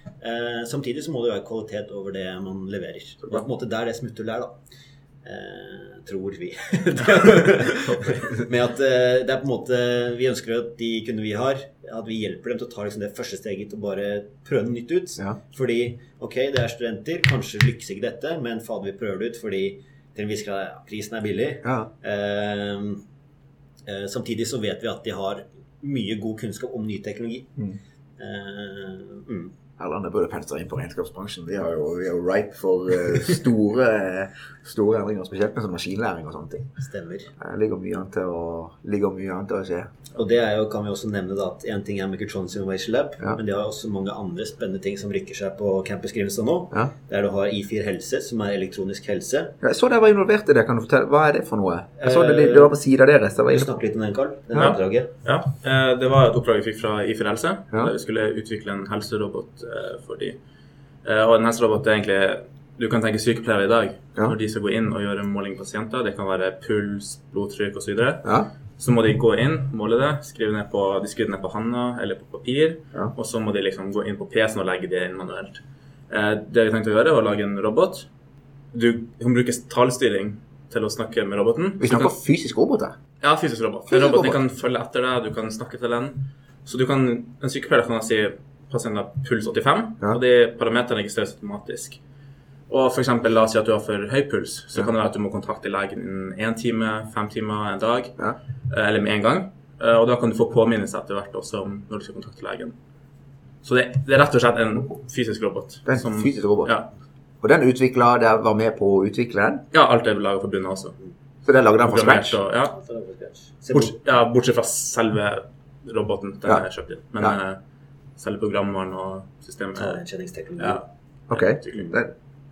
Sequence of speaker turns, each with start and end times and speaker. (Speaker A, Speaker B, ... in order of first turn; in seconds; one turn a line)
Speaker A: 0.2-4.6
Speaker A: 5.2-23.0
Speaker B: 7.7-8.3
Speaker C: 21.6-21.9
Speaker A: 23.9-27.5
Speaker A: 28.2-29.5
Speaker C: 29.8-36.7
Speaker A: 36.8-37.3
Speaker C: 37.4-39.9
Speaker A: 40.1-49.5
Speaker C: 49.6-53.8
Speaker A: 52.0-52.7
Speaker A: 53.5-55.1
Speaker B: 54.6-60.4
Speaker B: 61.0-78.1
Speaker C: 68.2-68.5
Speaker B: 78.7-82.1
Speaker C: 81.8-83.0
Speaker B: 83.2-92.0
Speaker C: 83.9-84.4
Speaker B: 92.7-98.2
Speaker B: 98.7-102.8
Speaker B: 103.6-106.9
Speaker C: 105.9-106.7
Speaker C: 107.4-109.7
Speaker B: 109.7-111.0
Speaker C: 111.5-112.4
Speaker B: 111.8-112.8
Speaker A: 112.8-114.0
Speaker B: 113.7-117.6
Speaker B: 118.2-120.0
Speaker A: 119.8-120.8
Speaker B: 120.6-122.0
Speaker C: 121.3-122.1